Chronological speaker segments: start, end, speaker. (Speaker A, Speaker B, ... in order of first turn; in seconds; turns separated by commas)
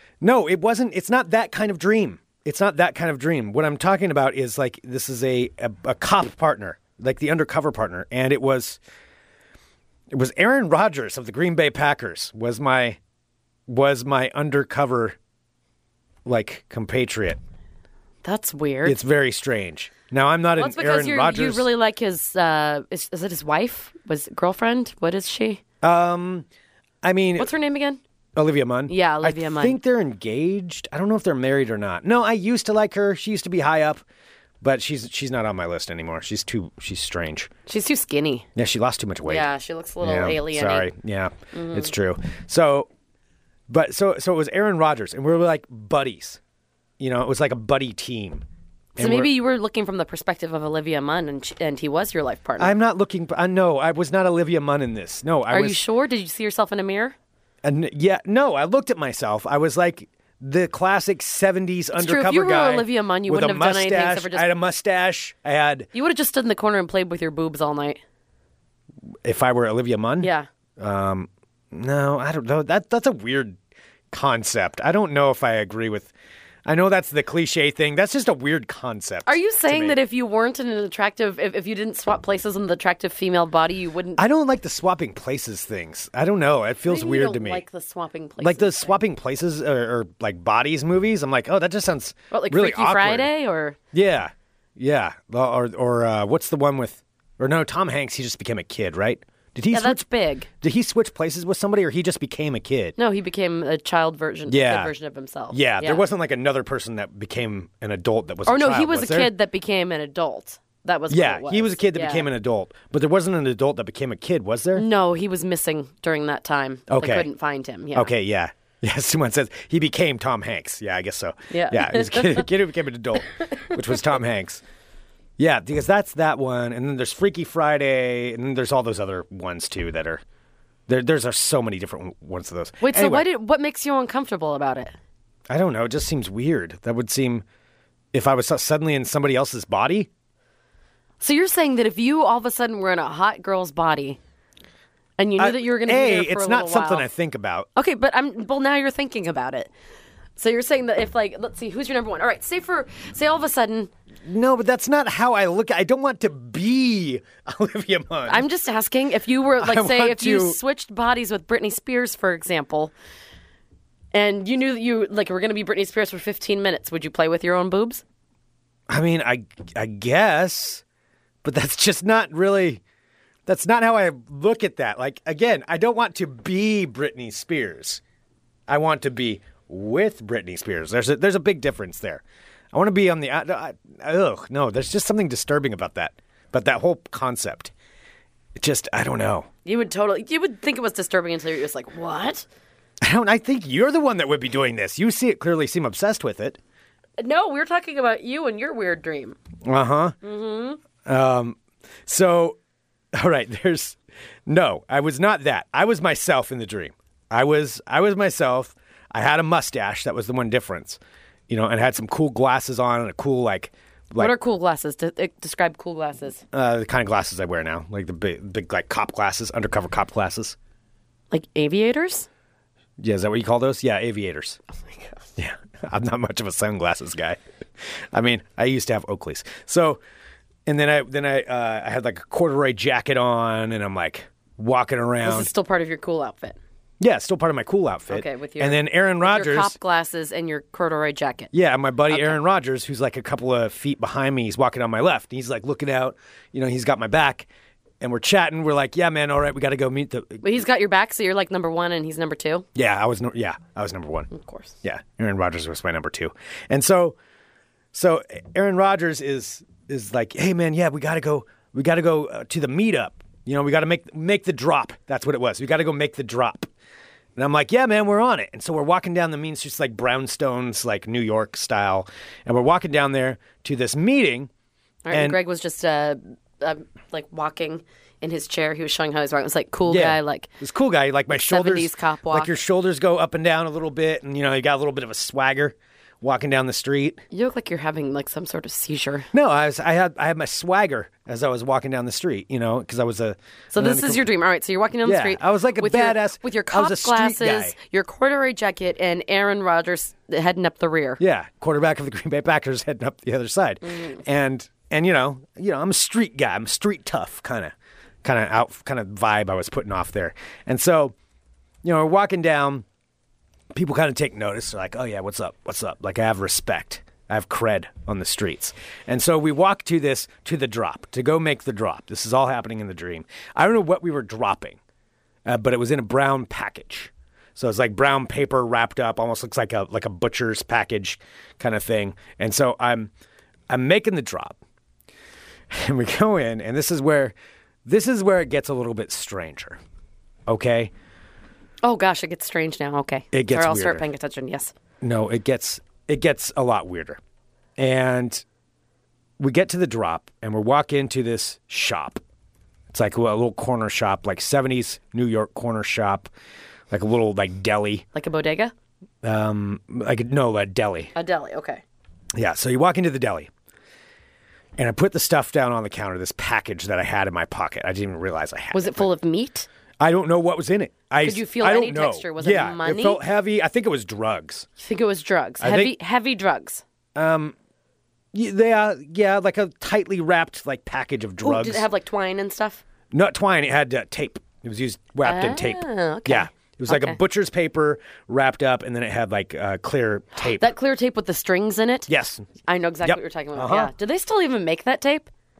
Speaker A: 0.2-8.8, Speaker A: 10.1-13.0, Speaker A: 13.7-15.2, Speaker A: 16.2-17.4, Speaker B: 18.2-19.0, Speaker A: 18.8-21.7, Speaker B: 20.6-25.6, Speaker A: 25.8-26.5, Speaker A: 27.0-27.5, Speaker B: 27.4-28.0, Speaker A: 28.3-34.0, Speaker B: 28.9-29.8, Speaker A: 34.6-37.5, Speaker B: 37.7-38.5, Speaker A: 38.5-39.5, Speaker B: 39.2-40.9, Speaker A: 40.0-42.9, Speaker B: 41.5-41.9, Speaker A: 43.7-46.4, Speaker A: 47.0-48.4, Speaker A: 49.0-49.3, Speaker B: 49.0-52.8, Speaker A: 52.6-55.8, Speaker B: 55.5-57.1, Speaker A: 57.6-65.9, Speaker B: 61.9-64.5, Speaker B: 65.9-68.0, Speaker A: 69.2-73.6, Speaker B: 70.2-70.5, Speaker A: 74.1-76.1, Speaker A: 76.6-80.0, Speaker B: 79.2-84.2, Speaker A: 84.2-87.6, Speaker B: 86.8-89.0, Speaker A: 88.4-93.3, Speaker B: 92.3-93.8, Speaker A: 93.9-100.0, Speaker B: 99.7-100.5, Speaker A: 100.6-103.0, Speaker B: 103.0-106.0, Speaker A: 104.5-104.9, Speaker A: 105.5-109.3, Speaker B: 108.5-112.3, Speaker A: 111.1-114.8, Speaker B: 114.7-118.1, Speaker A: 116.9-117.3, Speaker A: 117.9-124.6, Speaker B: 121.5-122.5, Speaker B: 123.3-123.8, Speaker A: 125.4-130.2, Speaker A: 130.9-133.2, Speaker B: 132.8-134.9, Speaker A: 135.5-137.4, Speaker A: 138.1-140.1, Speaker B: 141.2-144.2, Speaker B: 145.2-147.1, Speaker A: 145.4-147.7, Speaker B: 147.7-149.7, Speaker B: 150.4-153.9, Speaker A: 154.2-158.4, Speaker B: 158.3-162.9, Speaker A: 159.6-160.6, Speaker B: 164.1-168.0, Speaker A: 168.9-170.8, Speaker A: 171.4-172.8, Speaker A: 173.4-178.0, Speaker A: 178.7-187.7, Speaker A: 188.6-189.5, Speaker B: 189.6-192.4, Speaker A: 193.0-196.6, Speaker B: 197.2-199.4, Speaker A: 199.6-200.2, Speaker B: 200.2-200.8, Speaker A: 201.0-202.6, Speaker A: 203.1-214.3, Speaker B: 214.2-216.4, Speaker A: 216.5-220.6, Speaker B: 221.3-222.3, Speaker A: 223.0-224.6, Speaker B: 224.8-225.2, Speaker A: 225.4-230.0, Speaker A: 230.7-235.5, Speaker B: 235.2-236.6, Speaker A: 237.0-239.8, Speaker B: 238.1-241.5, Speaker A: 241.5-247.5, Speaker B: 242.1-242.4, Speaker A: 248.0-250.4, Speaker B: 250.4-252.7, Speaker A: 252.7-254.3, Speaker B: 254.3-254.7, Speaker A: 254.8-257.1, Speaker A: 257.9-266.7, Speaker A: 267.4-274.5, Speaker B: 275.0-280.5, Speaker A: 275.1-275.4, Speaker A: 279.9-287.2, Speaker B: 281.3-282.6, Speaker B: 287.3-289.3, Speaker A: 289.3-294.3, Speaker B: 293.7-301.2, Speaker A: 295.0-297.8, Speaker A: 301.2-311.1, Speaker B: 303.8-304.2, Speaker A: 311.8-312.8, Speaker A: 313.7-324.8, Speaker A: 325.4-333.1, Speaker A: 333.7-334.6, Speaker A: 335.7-339.8, Speaker A: 340.5-340.9, Speaker B: 341.8-344.7, Speaker A: 343.3-344.0, Speaker A: 345.0-347.2, Speaker A: 347.8-348.4, Speaker A: 349.4-352.2, Speaker A: 352.9-356.3, Speaker A: 356.9-358.0, Speaker B: 358.1-358.7, Speaker A: 359.2-361.1, Speaker B: 361.1-361.8, Speaker A: 362.3-363.5, Speaker A: 364.8-369.1, Speaker B: 368.7-369.7, Speaker A: 370.0-374.7, Speaker B: 371.2-373.2, Speaker B: 374.8-376.8, Speaker A: 375.6-375.9, Speaker A: 377.1-377.5, Speaker A: 378.3-381.9, Speaker B: 381.4-382.8, Speaker A: 383.1-390.7, Speaker B: 385.2-387.2, Speaker B: 390.5-392.1, Speaker A: 392.1-392.5, Speaker B: 392.6-395.3, Speaker A: 393.0-393.9